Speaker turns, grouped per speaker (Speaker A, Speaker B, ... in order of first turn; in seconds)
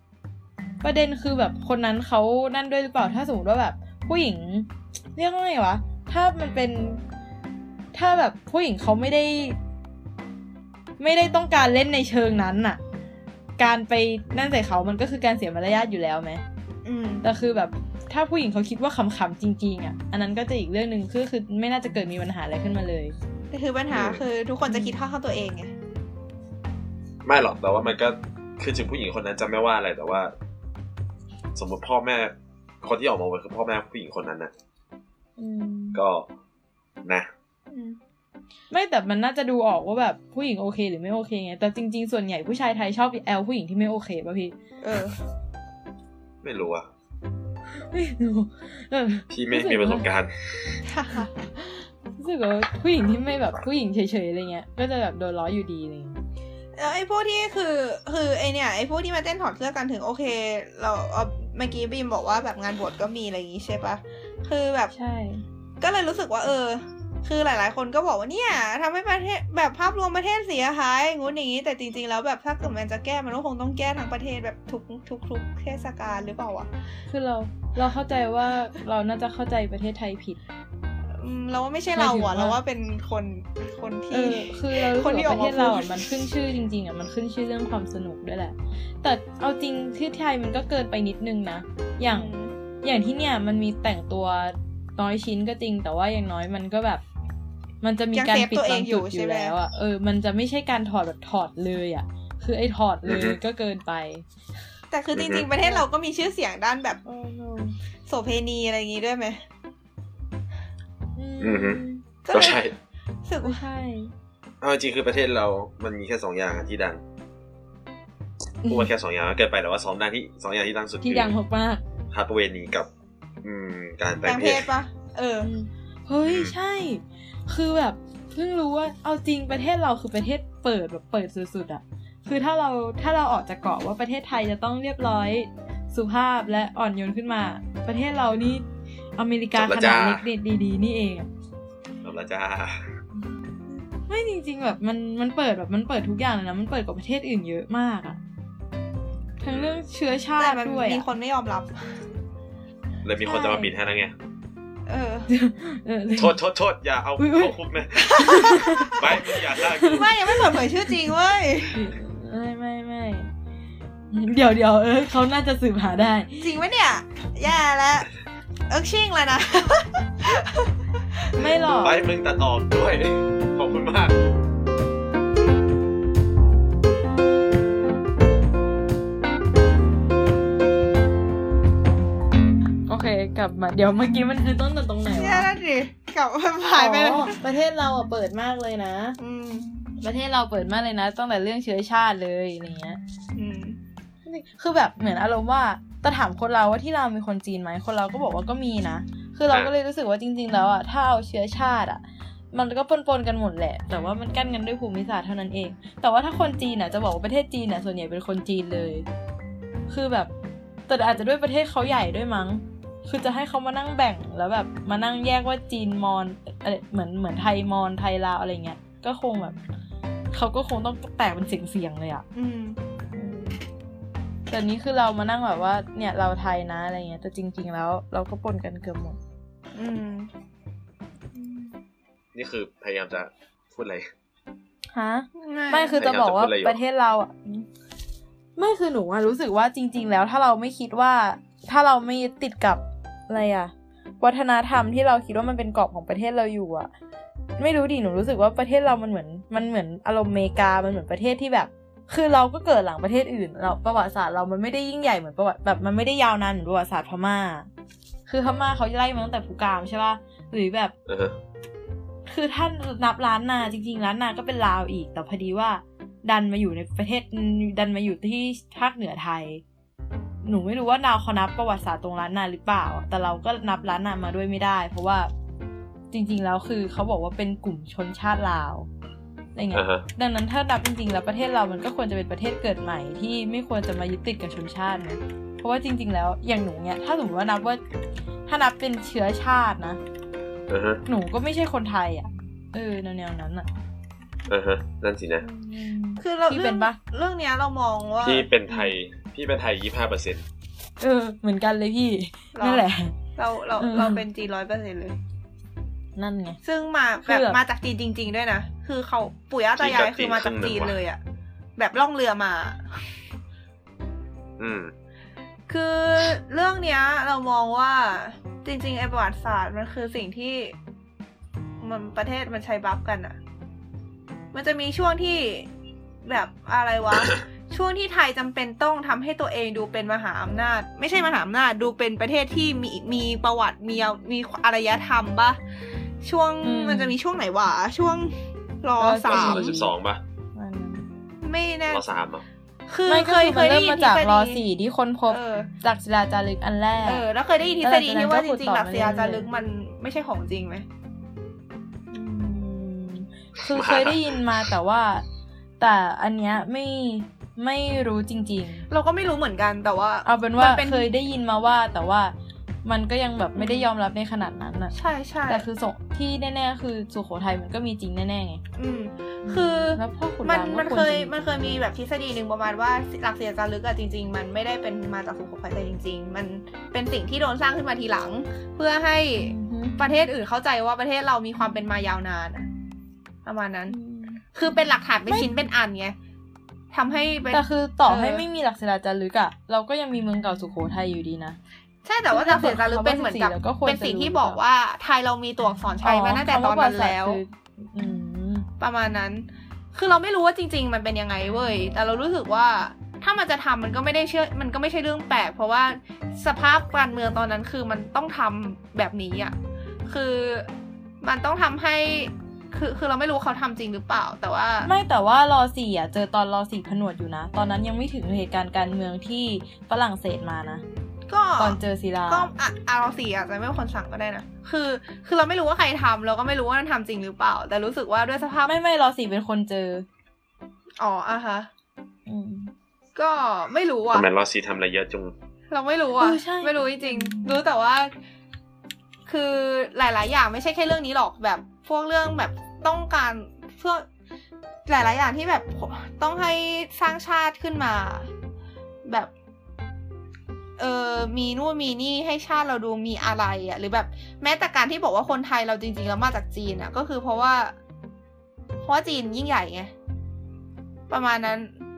Speaker A: 0.8-7.0, 7.9-9.6, 11.0-12.8, 13.6-16.4, 17.2-23.1, 24.7-24.9, 35.4-36.0, 38.7-44.5, 47.7-50.0, 52.2-56.2, 64.9-65.4, 77.1-80.4, 82.0-82.6, 84.1-97.0, 97.8-104.2, 105.6-105.8, 107.0-107.8, 111.2-112.0, 113.4-114.1, 118.6-118.9, 121.0-121.8, 125.4-138.6, 139.2-141.3, 143.7-148.2, 149.4-151.0, 153.2-153.7, 155.3-156.4, 157.2-157.5, 158.2-160.6, 161.7-163.3, 164.1-166.5, 171.3-172.0, 182.9-185.5, 186.7-189.2, 190.0-193.0, 194.2-209.1, 209.9-210.3, 210.9-219.6, 220.3-222.2, 223.1-223.6, 224.5-229.2, 231.3-231.7, 234.9-237.7, 238.6-246.9, 247.6-257.7, 258.3-260.9, 262.3-269.6, 270.4-275.3, 276.1-278.9, 279.5-287.8, 288.5-290.0, 291.1-293.7, 295.4-297.0, 301.0-303.1, 303.8-304.2, 306.2-306.6, 307.2-307.6, 336.6-337.1, 339.0-339.9, 340.5-341.1, 343.1-347.2, 347.8-349.4, 352.1-355.2, 355.8-358.9, 360.2-362.3, 362.8-364.9, 365.5-368.6, 369.4-371.9, 379.4-380.0, 383.9-384.4, 387.5-391.6, 392.3-394.6, 396.0-398.7, 414.8-420.8, 421.6-422.5, 428.6-430.1, 432.3-432.7, 436.2-437.6
Speaker B: 16.8-17.2, 23.5-25.7, 37.7-38.0, 44.8-45.2, 50.9-51.3, 56.8-64.9, 65.8-76.7, 81.1-86.2, 92.1-92.5, 98.1-99.5, 104.9-107.0, 108.1-109.4, 112.2-112.6, 113.2-113.6, 124.2-125.5, 150.4-151.8, 154.9-155.3, 158.0-161.9, 166.4-168.1, 168.7-171.2, 185.1-187.4, 189.2-189.7, 193.3-193.8, 222.3-222.8, 229.7-230.3, 235.4-236.0, 296.2-298.5, 302.5-302.8, 303.4-305.2, 306.6-311.2, 311.8-313.0, 315.7-320.7, 321.8-323.4, 324.5-325.7, 326.2-335.6, 336.2-339.8, 341.4-342.1, 342.9-344.6, 345.3-345.7, 347.1-350.9, 358.9-361.1, 363.6-363.9, 364.9-365.6, 368.7-382.7, 383.4-383.9, 384.5-386.1, 386.9-388.4, 392.0-397.4, 398.8-409.5, 410.1-410.7, 411.2-414.9, 421.3-428.7, 431.0-431.7, 433.1-434.3, 435.7-438.1, 439.3-444.1, 444.9-448.3, 449.1-449.3, 450.8-457.7, 458.8-459.9, 461.1-461.8
Speaker C: 23.9-24.2, 27.2-30.3, 31.5-34.5, 35.9-36.3, 46.4-46.9, 49.3-50.8, 103.0-103.4, 105.1-105.5, 111.4-112.7, 114.6-117.0, 118.7-121.3, 122.1-122.9, 123.4-124.7, 126.2-126.5, 139.6-140.2, 142.0-143.0, 149.5-149.8, 153.0-154.1, 156.1-160.1, 171.8-174.1, 232.3-234.1, 235.9-236.8, 261.1-261.4, 279.7-280.1, 290.7-291.0, 294.5-295.4, 298.2-300.4, 309.8-311.0, 314.6-314.9, 339.2-340.2, 341.9-342.4, 353.7-354.2, 434.1-435.3